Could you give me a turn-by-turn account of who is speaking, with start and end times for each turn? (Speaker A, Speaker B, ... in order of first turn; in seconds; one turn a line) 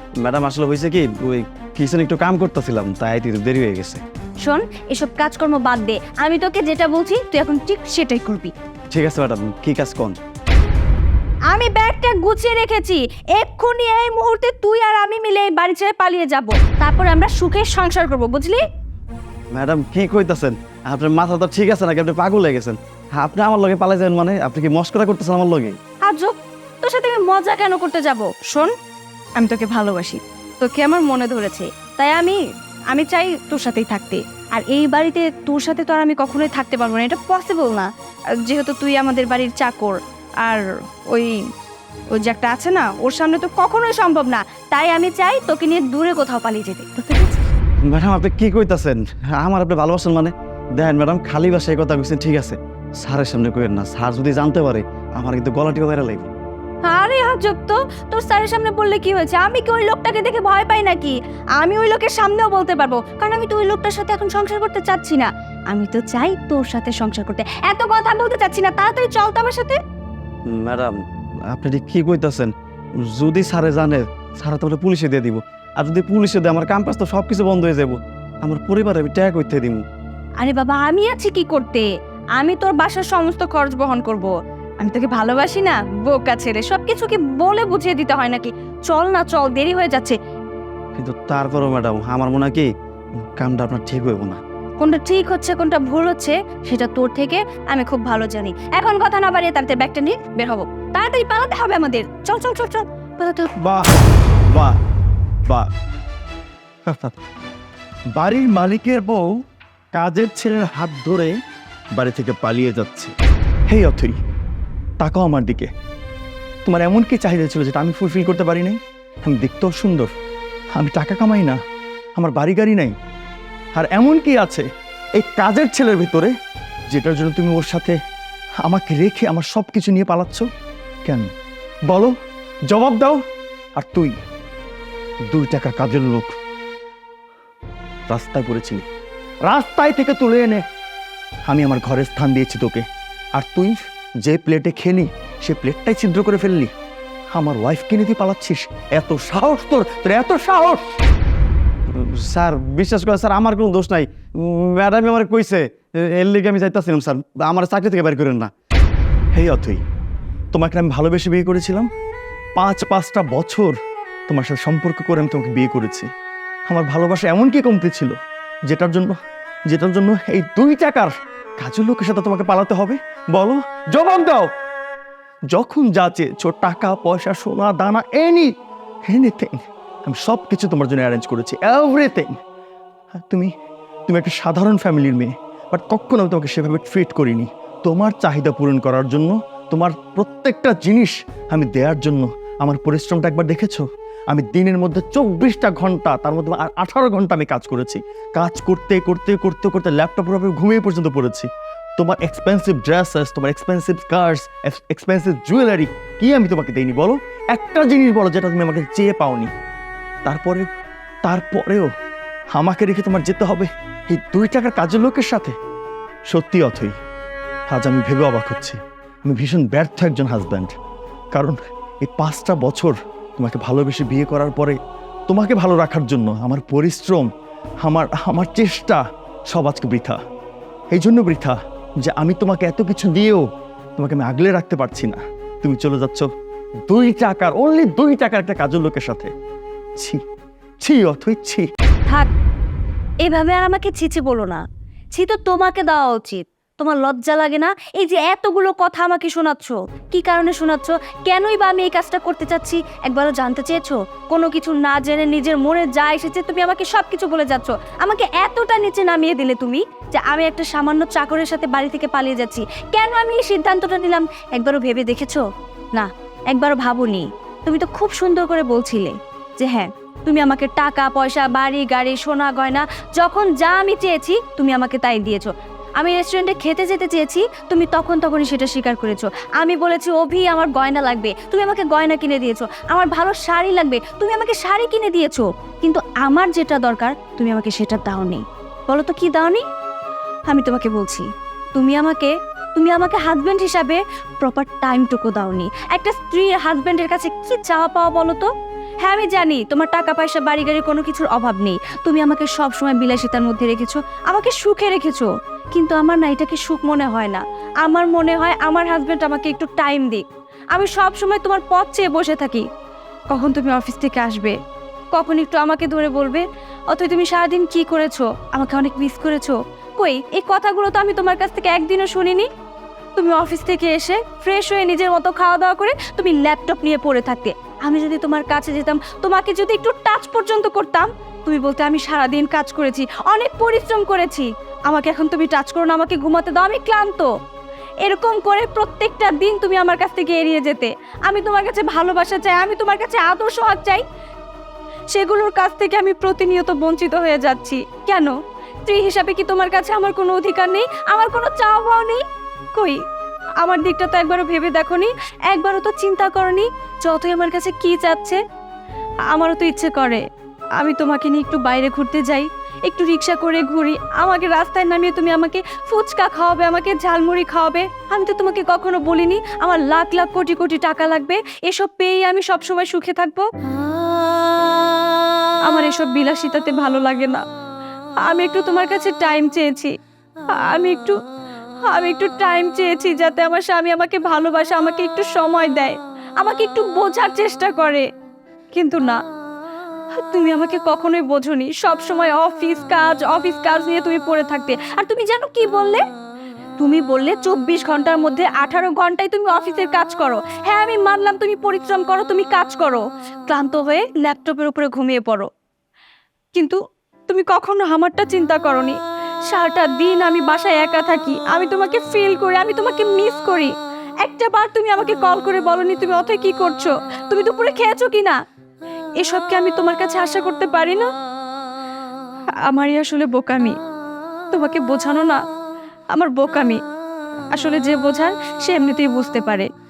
Speaker A: 0.2-4.0
Speaker B: 4.4-8.5
Speaker A: 8.9-10.2
Speaker B: 11.5-18.6
Speaker A: 19.5-25.8
Speaker B: 26.1-28.8
Speaker B: 29.4-32.4
Speaker B: 32.9-37.9
Speaker B: 38.4-41.4
Speaker B: 42.1-47.4
Speaker A: 47.9-56.3
Speaker B: 56.9-69.8
Speaker A: 70.5-71.0
Speaker A: 71.5-72.5
Speaker A: 73.1-79.8
Speaker B: 80.4-90.2
Speaker A: 91.0-92.7
Speaker A: 93.4-94.4
Speaker B: 94.8-103.5
Speaker C: 103.6-103.9
Speaker C: 104.5-104.8
Speaker C: 106.9-107.2
Speaker C: 108.2-109.4
Speaker C: 110.0-111.4
Speaker C: 112.0-113.1
Speaker C: 113.7-114.2
Speaker C: 115.0-115.7
Speaker C: 116.7-120.1
Speaker C: 120.8-121.6
Speaker C: 122.2-122.9
Speaker C: 123.7-126.3
Speaker C: 126.9-128.0
Speaker C: 128.6-130.5
Speaker C: 131.1-131.3
Speaker C: 131.9-132.2
Speaker C: 132.7-133.2
Speaker C: 133.8-134.1
Speaker C: 135.3-136.3
Speaker C: 138.1-138.9
Speaker C: 139.4-140.6
Speaker C: 141.5-142.8
Speaker C: 143.3-146.7
Speaker C: 147.3-150.9
Speaker A: 151.9-158.5
Speaker C: 159.3-159.8
Speaker C: 160.5-161.9
Speaker C: 162.6-163.7
Speaker C: 164.3-166.1
Speaker C: 166.7-168.2
Speaker C: 168.7-169.2
Speaker C: 169.7-174.5
Speaker C: 175.5-178.5
Speaker C: 179.1-182.4
Speaker C: 183.2-183.5
Speaker C: 184.1-209.5
Speaker C: 210.2-210.7
Speaker C: 211.2-211.9
Speaker C: 212.5-215.6
Speaker C: 216.3-216.9
Speaker C: 217.7-220.7
Speaker C: 221.3-224.8
Speaker C: 225.3-227.3
Speaker C: 227.8-229.0
Speaker C: 229.5-230.2
Speaker C: 230.9-233.4
Speaker C: 234.0-236.3
Speaker C: 236.9-239.3
Speaker C: 240.8-241.7
Speaker B: 243.2-244.6
Speaker B: 245.1-265.4
Speaker B: 265.9-289.6
Speaker B: 290.5-298.5
Speaker B: 299.0-312.7
Speaker B: 313.3-314.6
Speaker B: 315.1-322.5
Speaker B: 323.2-337.3
Speaker B: 338.0-344.0
Speaker B: 345.1-352.2
Speaker B: 352.7-353.0
Speaker B: 353.6-358.4
Speaker B: 359.3-360.2
Speaker B: 360.8-373.5
Speaker B: 375.7-377.4
Speaker B: 378.2-379.9
Speaker B: 380.6-381.2
Speaker B: 381.9-388.1
Speaker B: 388.7-389.2
Speaker B: 390.2-396.0
Speaker B: 396.8-405.5
Speaker B: 406.6-409.0
Speaker B: 409.5-418.4
Speaker B: 419.2-421.1
Speaker B: 422.7-423.8
Speaker B: 424.5-425.4
Speaker B: 426.1-426.8
Speaker B: 427.5-429.7